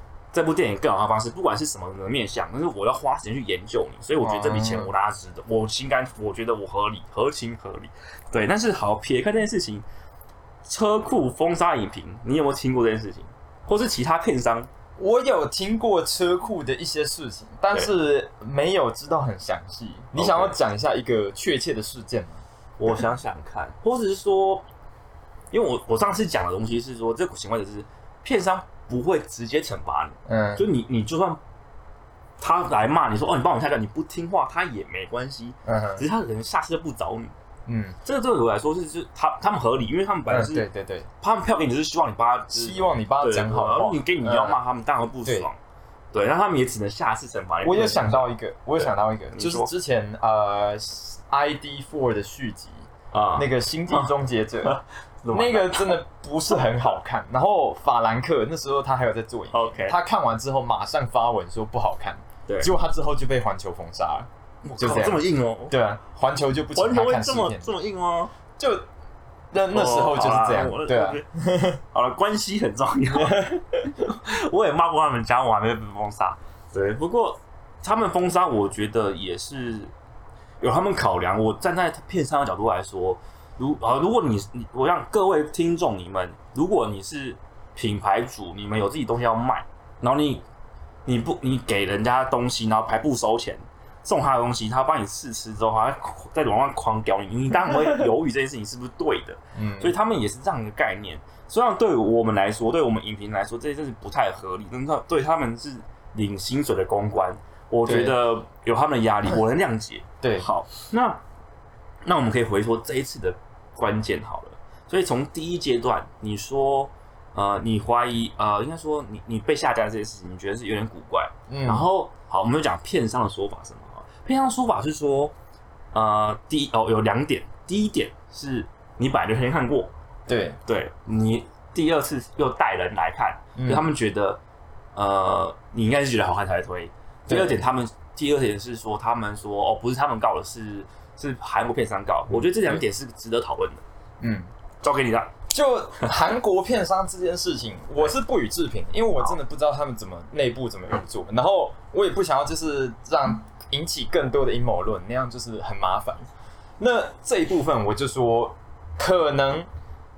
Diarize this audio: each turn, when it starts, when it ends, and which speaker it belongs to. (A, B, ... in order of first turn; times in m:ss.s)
0:00.3-0:09.8 A
0:04.2-0:04.9 B
0:10.6-0:14.7 A
0:15.0-0:22.4 B
0:20.2-0:20.5 A
0:22.8-0:24.6 A
0:25.5-0:31.4 A
0:30.2-0:30.7 B
0:32.4-0:37.3 A
0:35.6-0:36.0 B
0:37.7-0:38.0 B
0:38.0-0:40.6 A
0:40.3-0:41.1 B
0:41.2-0:45.6 A
0:42.5-0:44.6 B
0:46.1-0:49.7 A
0:47.6-0:54.8 B
0:53.1-0:54.1 A
0:54.6-0:56.0 A
0:55.3-1:07.7 B
0:59.5-1:00.0 A
1:04.6-1:05.7 A
1:06.7-1:08.3 A
1:08.6-1:08.8 B
1:09.5-1:11.8 B
1:09.7-1:11.2 A
1:11.9-1:19.9 A
1:13.2-1:13.8 B
1:20.6-1:30.4 A
1:31.0-1:51.2 A
1:39.5-1:39.9 B
1:47.8-1:48.2 B
1:52.0-2:05.3 A
2:01.5-2:01.9 B
2:05.9-2:09.9 A
2:10.3-2:10.6 B
2:10.6-2:14.4 A
2:13.6-2:13.8 B
2:15.0-2:23.8 A
2:17.3-2:17.6 B
2:22.3-2:22.8 B
2:24.2-2:24.5 B
2:24.8-2:25.3 A
2:25.5-2:36.3 B
2:36.8-2:39.7 B